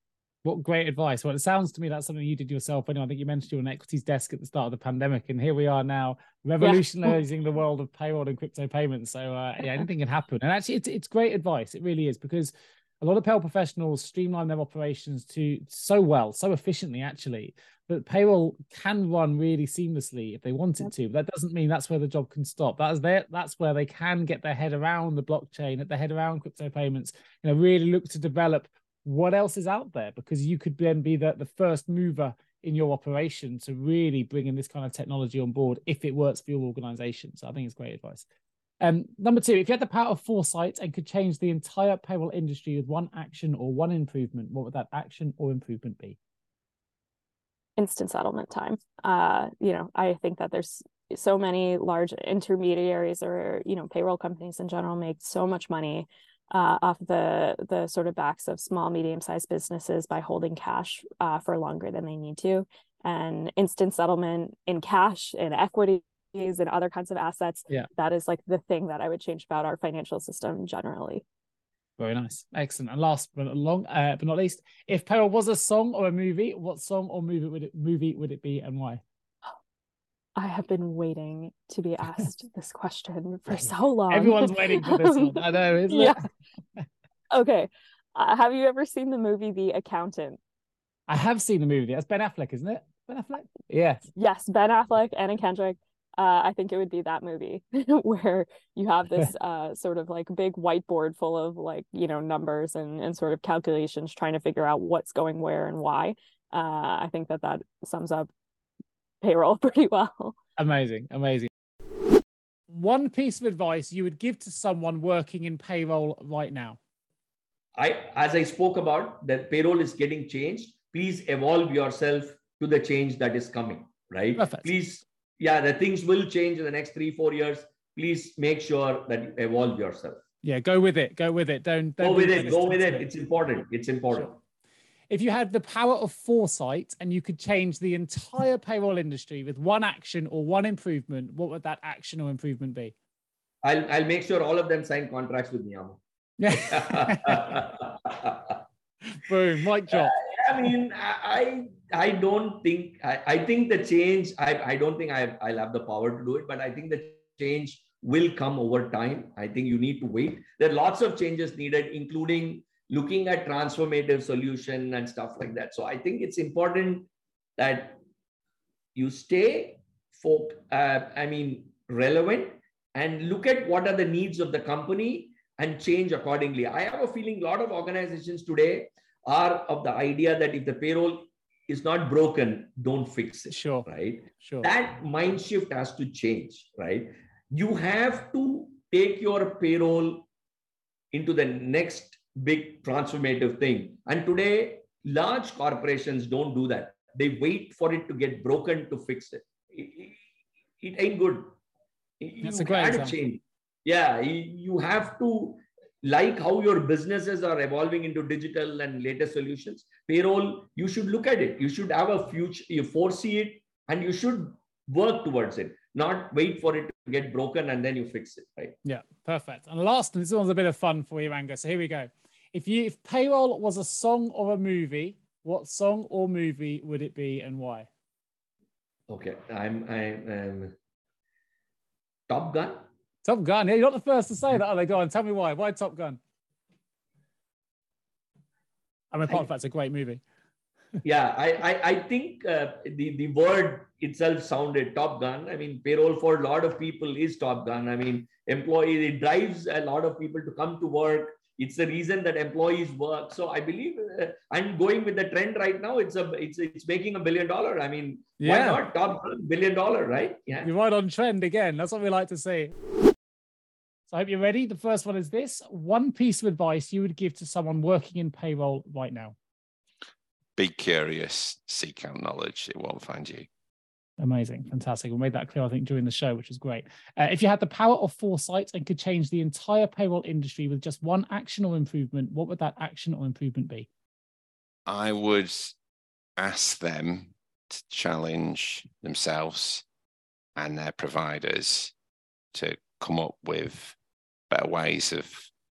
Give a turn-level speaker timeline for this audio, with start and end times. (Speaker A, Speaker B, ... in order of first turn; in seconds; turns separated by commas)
Speaker A: 0.5-38.2, Speaker B: 6.6-7.2, Speaker A: 38.8-46.2, Speaker B: 47.8-71.2, Speaker A: 72.0-79.0, Speaker B: 80.4-86.2, Speaker A: 83.5-86.2, Speaker B: 87.3-90.4, Speaker A: 91.1-94.1, Speaker B: 94.2-108.3, Speaker B: 109.2-110.4, Speaker A: 110.6-111.5, Speaker A: 112.7-116.8, Speaker C: 117.8-130.2, Speaker A: 124.4-124.8, Speaker A: 130.4-133.1, Speaker C: 132.0-134.4, Speaker A: 135.1-142.9, Speaker C: 143.6-148.3, Speaker A: 146.4-147.6, Speaker A: 149.1-150.2, Speaker C: 149.9-168.0, Speaker C: 169.0-190.3, Speaker A: 183.5-184.7, Speaker C: 191.1-200.2, Speaker C: 200.8-201.5, Speaker C: 202.2-218.8, Speaker A: 202.4-203.2, Speaker A: 218.8-227.9, Speaker C: 229.1-230.7, Speaker C: 232.3-232.8, Speaker A: 233.2-236.2, Speaker A: 239.1-240.2, Speaker C: 241.0-260.7, Speaker A: 258.4-258.8, Speaker A: 260.6-262.7, Speaker A: 264.1-269.4, Speaker D: 270.6-273.5, Speaker A: 274.2-283.9, Speaker D: 284.9-285.8, Speaker D: 286.4-289.8, Speaker D: 290.6-291.9, Speaker D: 292.5-294.0, Speaker D: 294.5-295.5